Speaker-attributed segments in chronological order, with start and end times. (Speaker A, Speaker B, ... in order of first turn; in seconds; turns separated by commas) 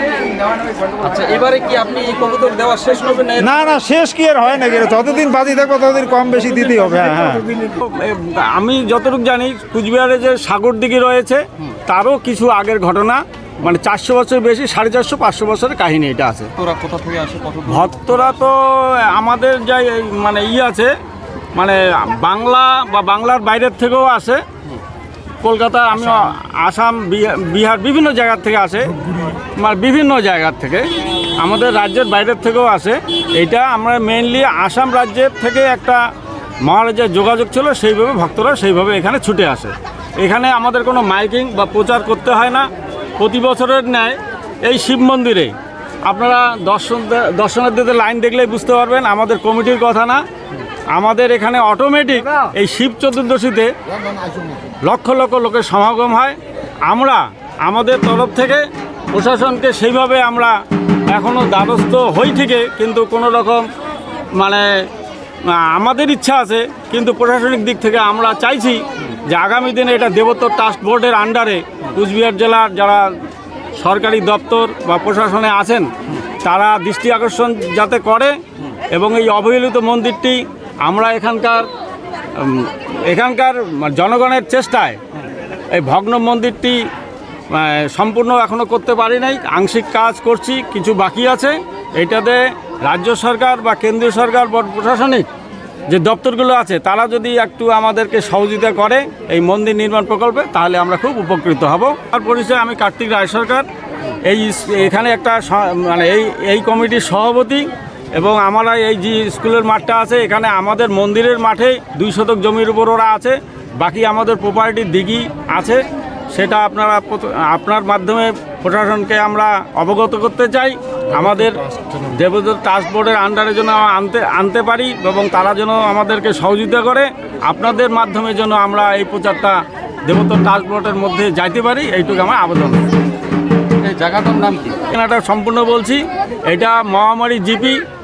Speaker A: 1.0-3.6, Speaker B: 3.4-7.5, Speaker C: 7.7-16.5, Speaker A: 16.6-18.5, Speaker C: 17.7-20.9, Speaker C: 21.6-24.4, Speaker C: 25.4-28.9, Speaker C: 29.6-30.9, Speaker C: 31.4-36.0, Speaker C: 36.6-45.5, Speaker C: 46.1-50.2, Speaker C: 51.0-53.7, Speaker C: 54.9-56.4, Speaker C: 56.9-60.5, Speaker C: 61.1-63.6, Speaker C: 64.4-64.7, Speaker C: 65.5-73.1, Speaker C: 73.8-75.9, Speaker C: 76.4-78.4, Speaker C: 78.9-81.7, Speaker C: 82.4-85.0, Speaker C: 85.7-86.8, Speaker C: 87.5-95.3, Speaker C: 95.9-103.7, Speaker C: 104.2-132.8, Speaker A: 133.8-134.8, Speaker C: 134.9-137.8